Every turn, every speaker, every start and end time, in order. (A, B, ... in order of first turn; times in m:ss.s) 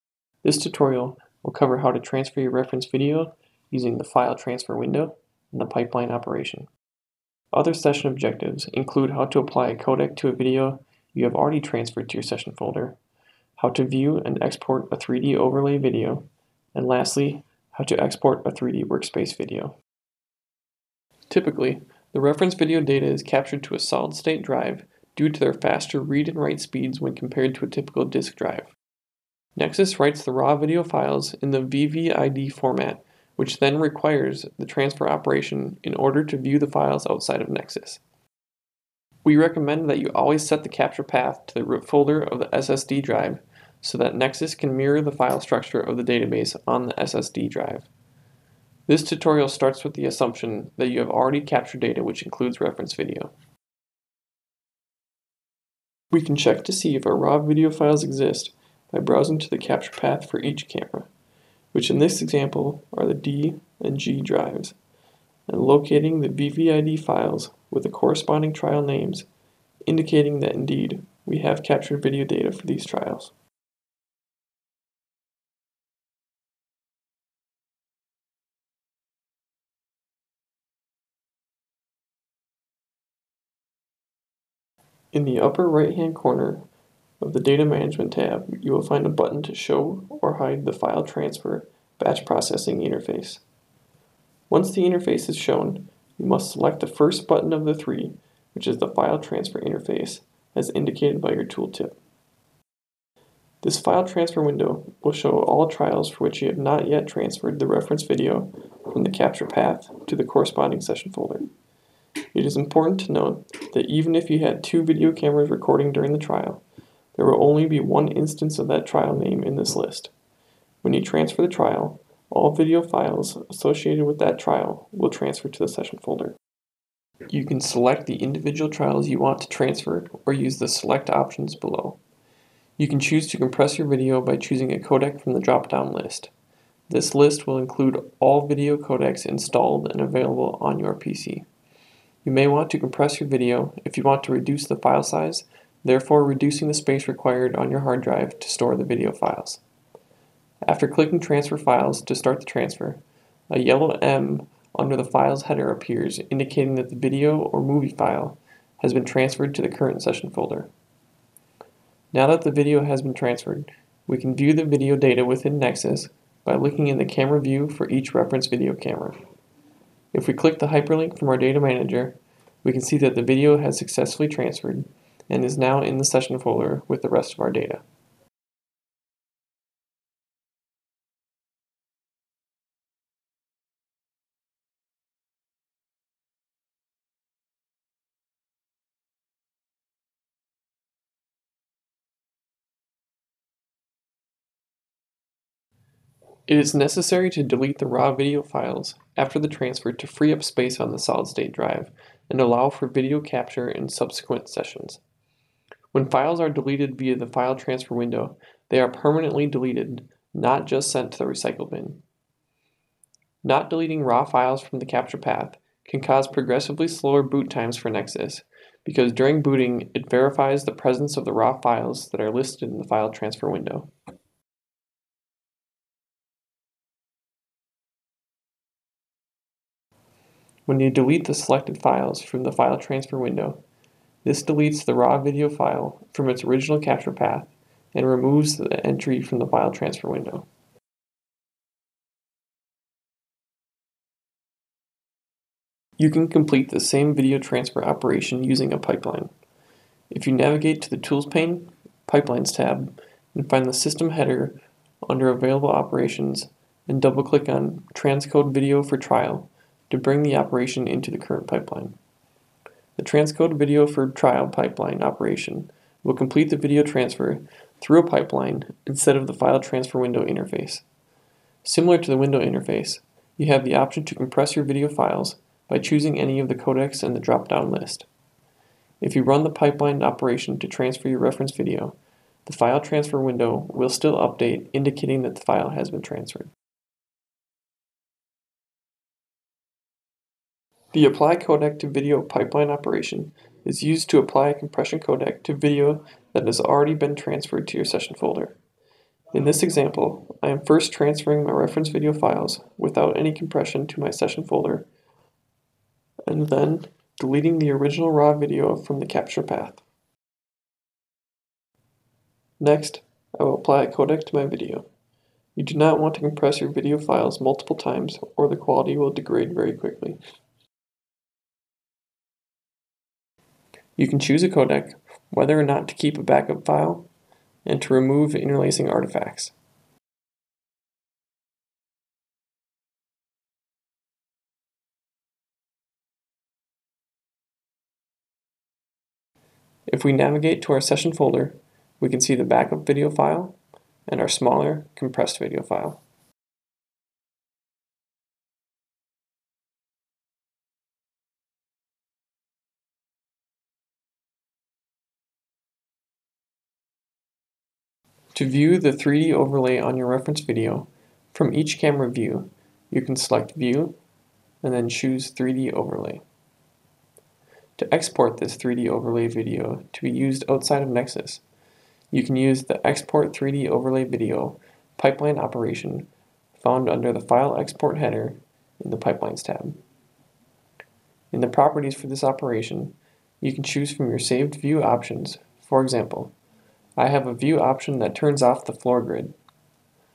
0:00.4-0:06.7 A
0:07.5-0:13.0 A
0:13.6-0:19.8 A
0:21.3-0:28.7 A
0:29.6-0:38.0 A
0:39.2-0:47.9 A
0:48.9-0:53.3 A
0:56.1-1:01.1 A
1:01.7-1:04.8 A
1:05.5-1:09.3 A
1:09.9-1:13.3 A
1:25.1-1:26.7 A
1:27.2-1:33.4 A
1:34.5-1:42.0 A
1:43.6-1:51.5 A
1:52.3-1:56.6 A
1:57.2-2:00.1 A
2:00.8-2:06.4 A
2:07.3-2:12.0 A
2:12.8-2:16.3 A
2:16.9-2:21.5 A
2:22.2-2:29.6 A
2:30.7-2:40.7 A
2:42.1-2:49.2 A
2:50.1-2:57.8 A
3:16.5-3:25.0 A
3:25.9-3:32.0 A
3:33.4-3:43.9 A
3:50.7-3:53.6 A
3:54.2-4:00.5 A
4:06.0-4:09.3 A
4:10.1-4:22.0 A
4:23.0-4:30.8 A
4:31.6-4:38.1 A
4:39.0-4:46.5 A
4:50.9-4:58.6 A
4:59.3-5:04.9 A
5:06.3-5:09.8 A
5:12.6-5:14.9 A
5:15.6-5:20.2 A
5:24.0-5:27.1 A
5:27.6-5:29.5 A
5:39.9-5:46.0 A
5:58.3-6:04.0 A
6:04.6-6:06.2 A
6:07.8-6:11.4 A
6:12.1-6:19.8 A
6:21.3-6:26.3 A
6:27.0-6:29.4 A